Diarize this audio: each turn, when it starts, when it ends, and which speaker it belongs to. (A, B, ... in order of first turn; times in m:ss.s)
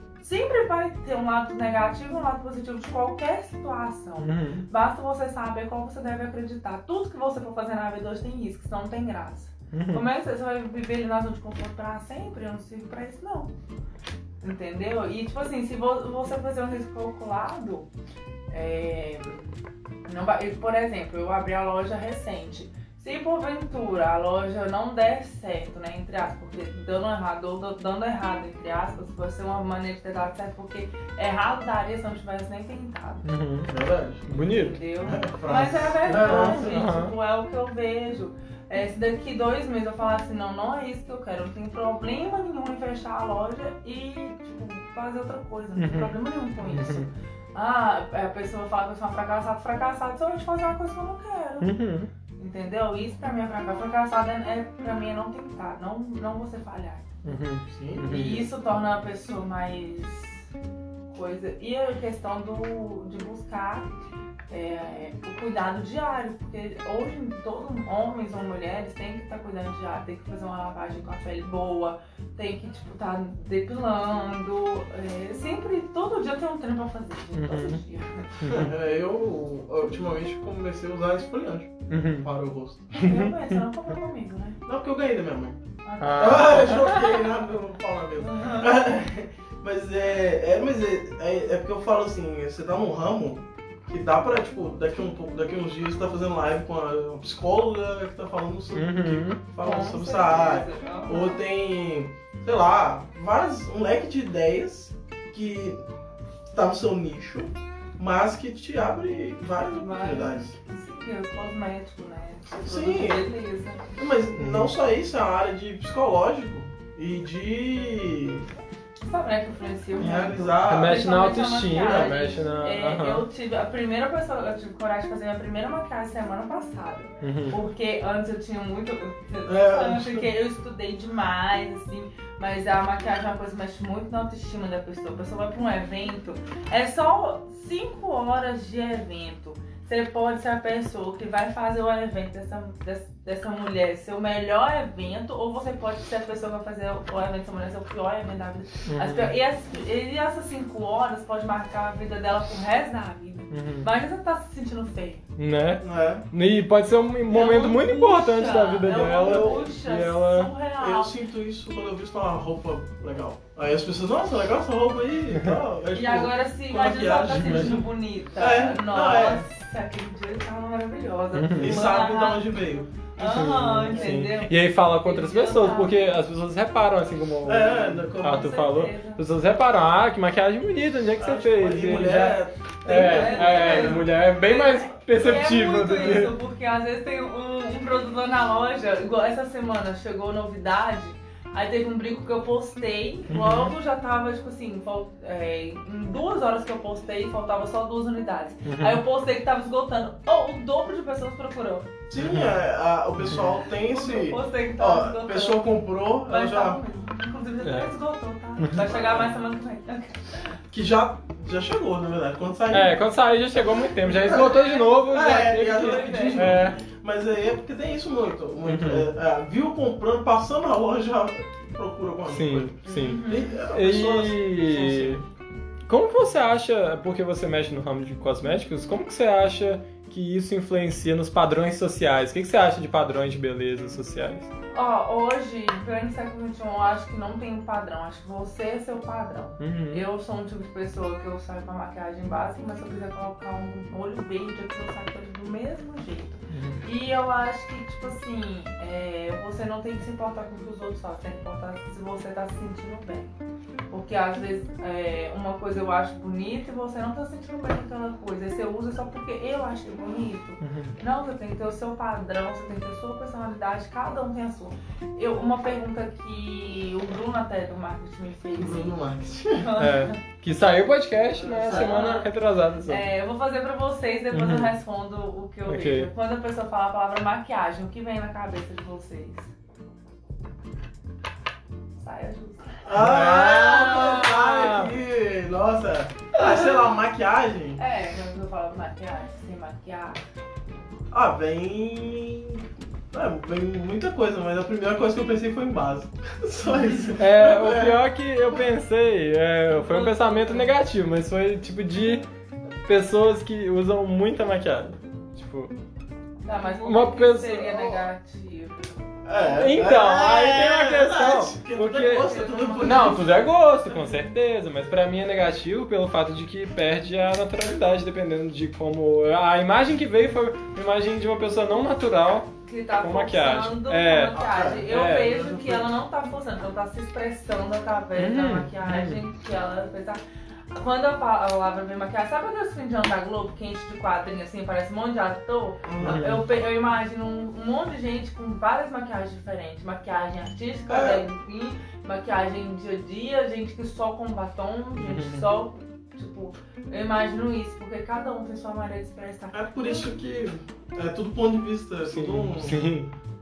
0:00.2-0:13.5 A
0:04.2-0:04.6 B
0:09.7-0:10.0 B
0:14.4-0:17.9 A
0:18.5-0:19.5 A
0:20.0-0:33.3 A
0:33.2-0:33.7 B
0:33.7-0:34.2 C
0:34.2-0:34.8 B
0:34.4-0:51.7 A
0:35.0-0:36.8 C
0:36.0-0:37.1 B
0:45.8-0:47.1 B
0:51.6-0:52.1 B
0:52.4-0:57.1 A
0:57.2-0:58.5 B
0:57.7-0:58.1 C
0:58.1-1:00.5 A
1:01.1-1:03.9 A
1:04.5-1:18.6 A
1:17.3-1:17.8 B
1:18.4-1:18.7 B
1:18.5-1:22.9 C
1:21.9-1:22.3 B
1:22.9-1:24.6 A
1:23.0-1:23.4 B
1:24.6-1:25.6 C
1:25.8-1:26.9 A
1:26.0-1:27.1 B
1:26.1-1:45.8 C
1:28.2-1:28.8 A
1:38.7-1:39.4 B
1:39.6-1:41.4 A
1:46.5-1:50.6 C
1:49.8-1:53.8 A
1:52.5-1:53.3 C
1:54.0-1:58.5 C
1:54.4-1:54.7 B
1:59.0-2:35.2 A
2:00.0-2:01.0 C
2:00.6-2:03.2 B
2:07.2-2:07.6 B
2:09.4-2:10.2 C
2:28.9-2:29.3 B
2:33.5-2:33.9 B
2:35.4-2:40.5 B
2:35.8-2:36.2 C
2:37.3-2:41.1 A
2:39.0-2:39.7 C
2:40.8-2:49.4 C
2:45.9-2:52.4 A
2:51.3-2:51.9 B
2:51.6-2:52.9 C
2:53.2-2:56.2 A
2:53.2-3:06.3 B
2:57.4-2:58.4 C
2:58.2-2:59.2 A
3:01.2-3:04.1 C
3:02.8-3:21.9 A
3:13.3-3:13.7 B
3:18.6-3:19.0 B
3:22.1-3:26.8 C
3:22.1-3:22.6 B
3:23.2-3:23.6 B
3:23.9-3:25.7 A
3:26.2-3:30.5 A
3:27.6-3:27.9 B
3:28.6-3:28.9 B
3:28.8-3:29.3 C
3:30.7-3:33.0 C
3:32.7-3:36.8 B
3:34.0-3:45.2 C
3:34.1-3:34.9 A
3:35.6-3:36.6 A
3:38.6-3:39.1 B
3:42.3-3:45.2 B
3:42.9-3:43.6 A
3:45.9-3:54.5 B
3:54.7-4:13.3 A
3:59.6-4:00.0 B
4:06.5-4:06.8 B
4:13.9-4:29.0 A
4:20.6-4:20.9 B
4:28.6-4:29.7 C
4:29.6-4:30.2 A
4:29.8-4:33.1 B
4:31.3-4:32.3 A
4:31.6-4:32.0 C
4:32.8-4:39.5 A
4:34.3-4:34.8 B
4:35.6-4:36.1 B
4:42.0-4:42.8 A
4:42.8-4:47.8 C
4:42.9-4:44.9 B
4:46.4-4:46.8 A
4:47.8-4:50.2 A
4:51.1-4:58.1 C
4:57.2-5:02.2 B
4:59.8-5:00.7 A
5:02.8-5:05.7 B
5:06.4-5:09.0 A
5:06.6-5:08.0 B
5:09.2-5:13.5 C
5:09.4-5:25.4 B
5:12.0-5:13.4 A
5:22.6-5:30.2 A
5:24.3-5:26.0 C
5:28.2-5:29.2 B
5:30.7-5:50.1 A
5:35.8-5:36.2 C
5:36.0-5:36.4 B
5:40.9-5:41.2 C
5:45.0-5:45.5 B
5:49.5-5:52.8 C
5:52.0-5:53.1 B